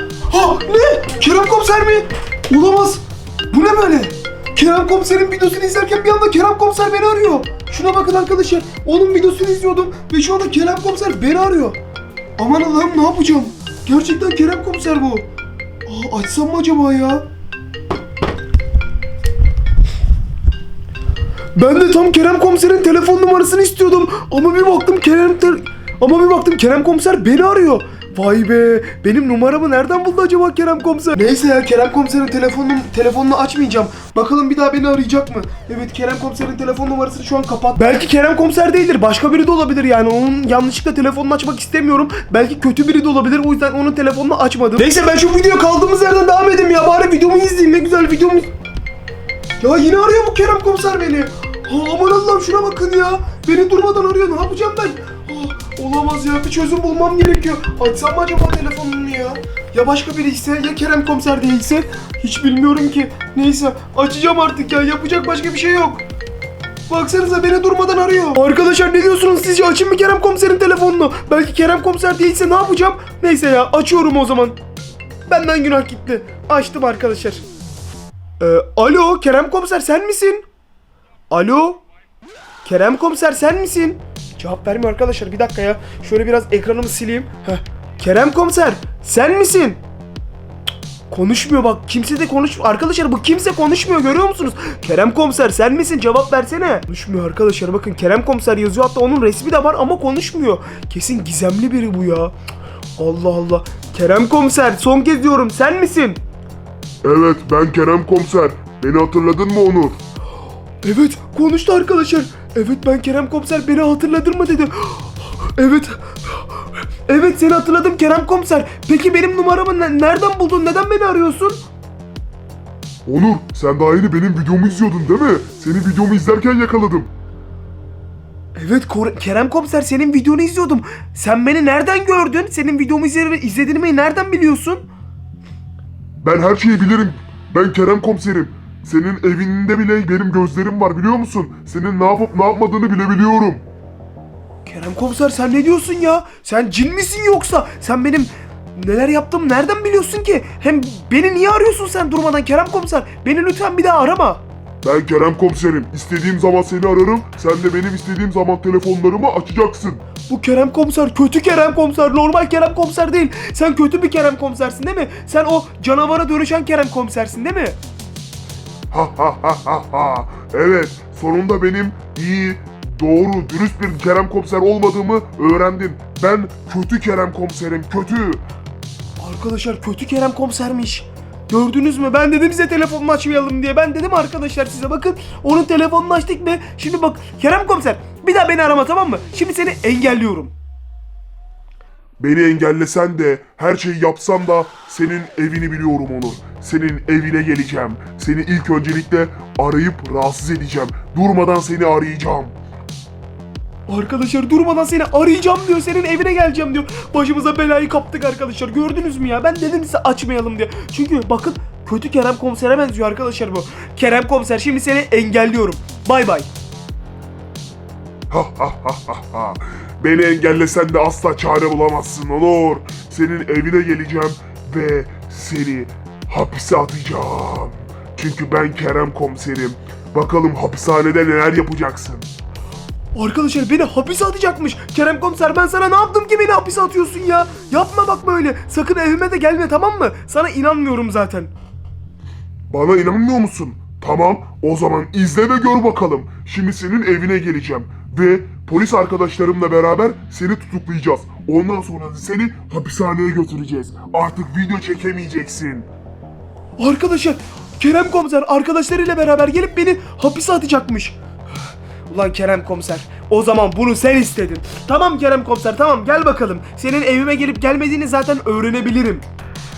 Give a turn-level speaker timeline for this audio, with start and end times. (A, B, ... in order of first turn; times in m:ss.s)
0:00.3-0:11.8 A
0:12.4-0:15.2 A
0:15.8-0:17.2 A
0:21.5-0:48.5 A
0:49.6-1:06.0 A
1:06.9-1:14.6 A
1:15.3-1:17.4 A
1:18.4-1:20.5 A
1:21.3-1:21.8 A
1:22.6-1:29.8 A
1:31.1-1:42.3 A
1:43.0-1:46.2 A
1:47.0-1:50.0 B
1:50.8-2:01.6 A
2:03.0-2:07.1 B
2:08.5-2:14.8 A
2:16.2-2:23.6 B
2:24.6-2:34.4 A
2:34.8-2:40.0 B
2:40.3-2:47.8 A
2:48.9-2:58.4 B
2:59.2-3:10.5 A
3:12.2-3:22.5 B
3:23.9-3:36.5 A
3:38.3-3:52.2 B
3:53.1-4:01.5 A
4:02.7-4:15.9 B
4:16.8-4:21.2 A
4:22.1-4:29.2 A